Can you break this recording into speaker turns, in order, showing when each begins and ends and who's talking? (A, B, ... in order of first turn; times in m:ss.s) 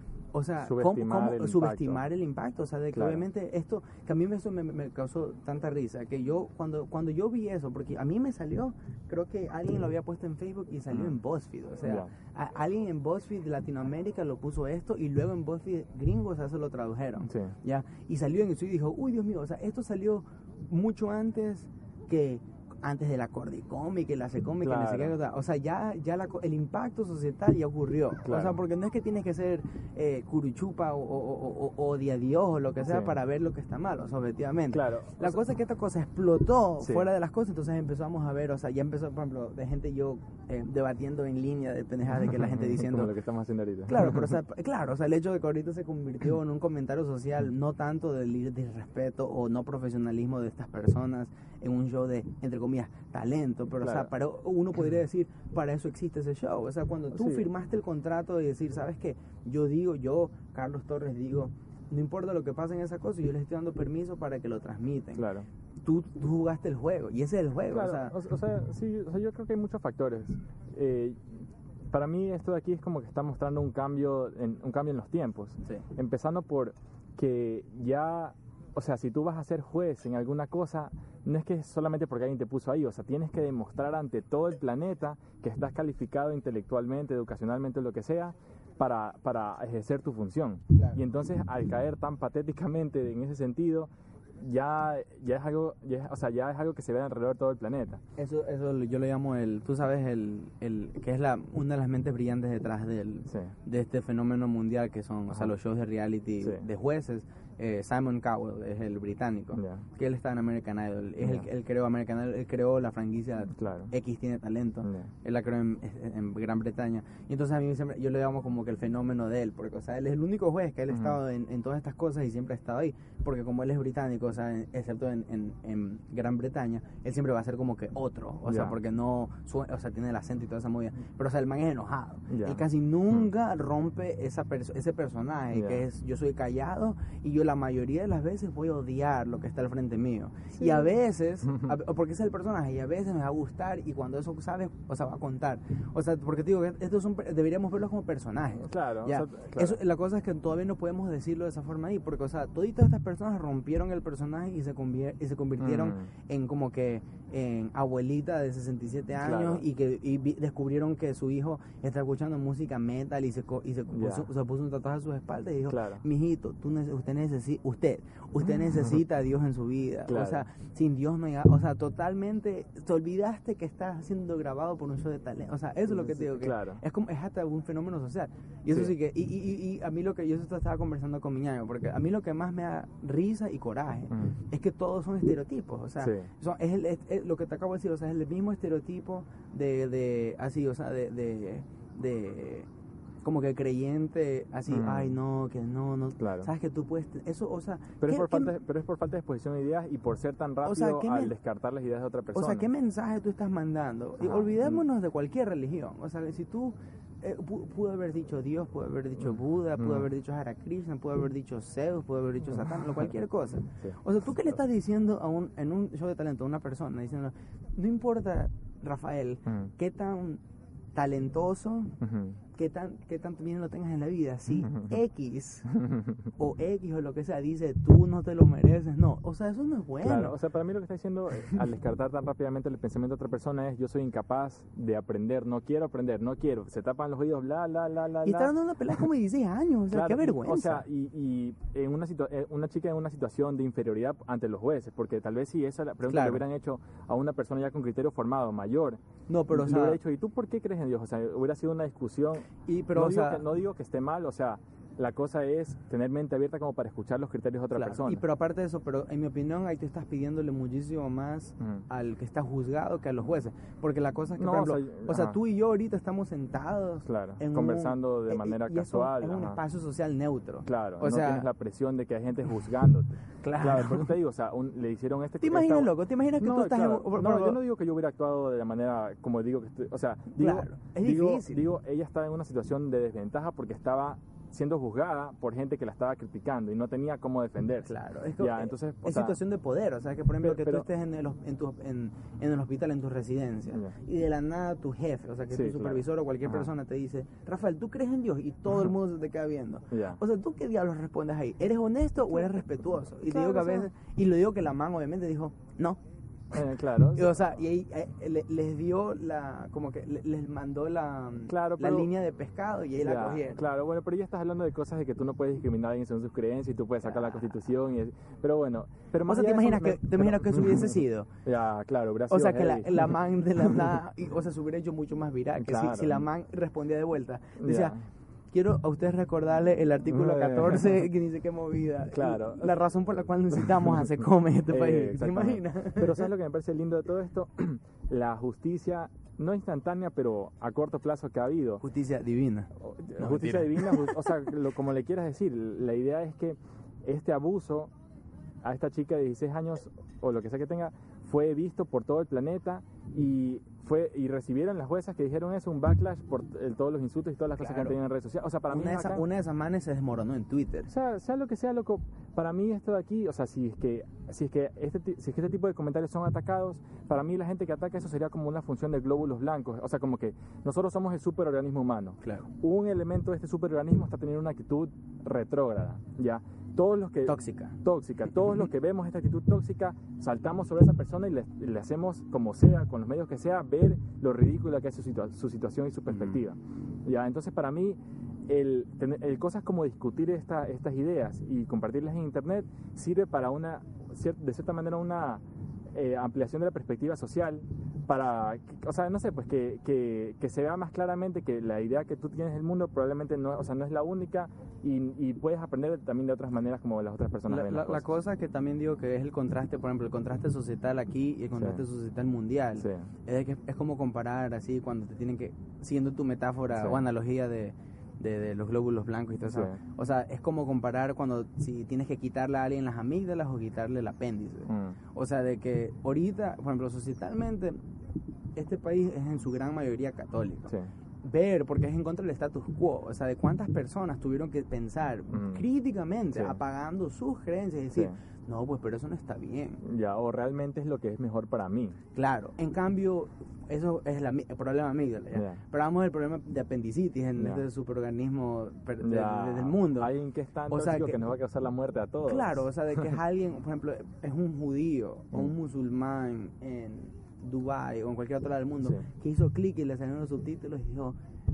0:00.3-0:43.1 A
0:00.6-0:02.0 B
0:02.9-0:03.2 B
0:11.8-0:12.1 B
0:17.3-0:17.5 B
0:24.6-0:25.2 B
0:28.2-0:28.6 B
0:32.8-0:33.2 B
0:34.7-0:35.4 B
0:36.8-0:37.1 B
0:42.3-0:44.4 B
0:43.9-1:05.3 A
0:53.8-0:54.1 B
0:57.1-0:57.5 B
1:05.2-1:05.5 B
1:05.8-1:08.2 A
1:07.7-1:11.3 B
1:11.9-1:38.0 B
1:30.8-1:31.0 A
1:38.2-3:12.7 A
1:49.6-1:49.8 B
1:51.2-1:51.5 B
1:53.5-1:53.9 B
1:54.8-1:55.1 B
2:00.9-2:01.2 B
2:08.5-2:08.8 B
2:12.3-2:12.6 B
2:15.5-2:15.8 B
2:20.6-2:20.9 B
2:28.6-2:29.8 B
2:35.6-2:36.1 B
2:39.2-2:39.6 B
2:43.9-2:44.3 B
2:45.7-2:46.0 B
2:50.1-2:50.4 B
2:55.9-2:56.8 B
3:06.0-3:06.3 B
3:13.2-3:18.6 A
3:14.7-3:15.2 B
3:16.2-3:16.5 B
3:18.0-3:22.7 B
3:20.6-3:21.3 A
3:22.3-3:40.4 A
3:24.2-3:24.8 B
3:29.8-3:30.1 B
3:41.0-3:42.0 A
3:42.0-3:42.4 B
3:42.6-3:45.7 A
3:45.7-3:46.2 B
3:46.4-3:50.4 A
3:50.0-3:59.0 B
3:58.2-4:00.8 A
3:59.9-4:09.0 B
4:06.1-4:06.4 A
4:09.3-4:10.0 A
4:09.5-4:18.2 B
4:12.7-4:13.4 A
4:17.8-4:31.5 A
4:24.4-4:25.4 B
4:27.1-4:29.6 B
4:30.6-4:49.4 B
4:33.4-4:34.1 A
4:35.4-4:37.6 A
4:40.3-4:41.6 A
4:47.9-5:06.0 A
4:50.4-4:50.9 B
4:55.5-4:56.7 B
4:59.9-5:00.2 B
5:03.2-5:03.9 B
5:06.5-5:07.6 B
5:06.5-5:13.6 A
5:11.5-5:12.1 B
5:13.0-5:24.0 B
5:17.0-5:17.5 A
5:19.2-5:21.3 A
5:22.3-5:28.0 A
5:25.6-5:26.3 B
5:27.6-5:28.0 B
5:28.5-5:36.3 A
5:30.1-5:31.0 B
5:32.1-5:32.8 B
5:33.5-5:34.0 B
5:34.7-5:41.8 B
5:41.8-5:44.3 A
5:42.8-5:47.9 B
5:48.6-5:59.2 B
5:57.6-5:58.0 A
5:58.7-6:00.9 A
6:00.9-6:48.0 B
6:12.2-6:12.5 A
6:17.3-6:17.8 A
6:26.1-6:26.4 A
6:47.5-7:07.8 A
6:51.6-6:51.8 B
6:52.8-6:53.1 B
6:56.7-6:57.0 B
6:59.5-6:59.8 B
7:04.7-7:05.0 B
7:08.6-7:19.8 A
7:15.3-7:15.6 B
7:19.8-7:22.0 B
7:22.2-7:30.1 A
7:27.4-7:27.6 B
7:29.0-7:33.0 B
7:30.7-7:31.2 A
7:32.3-7:41.2 A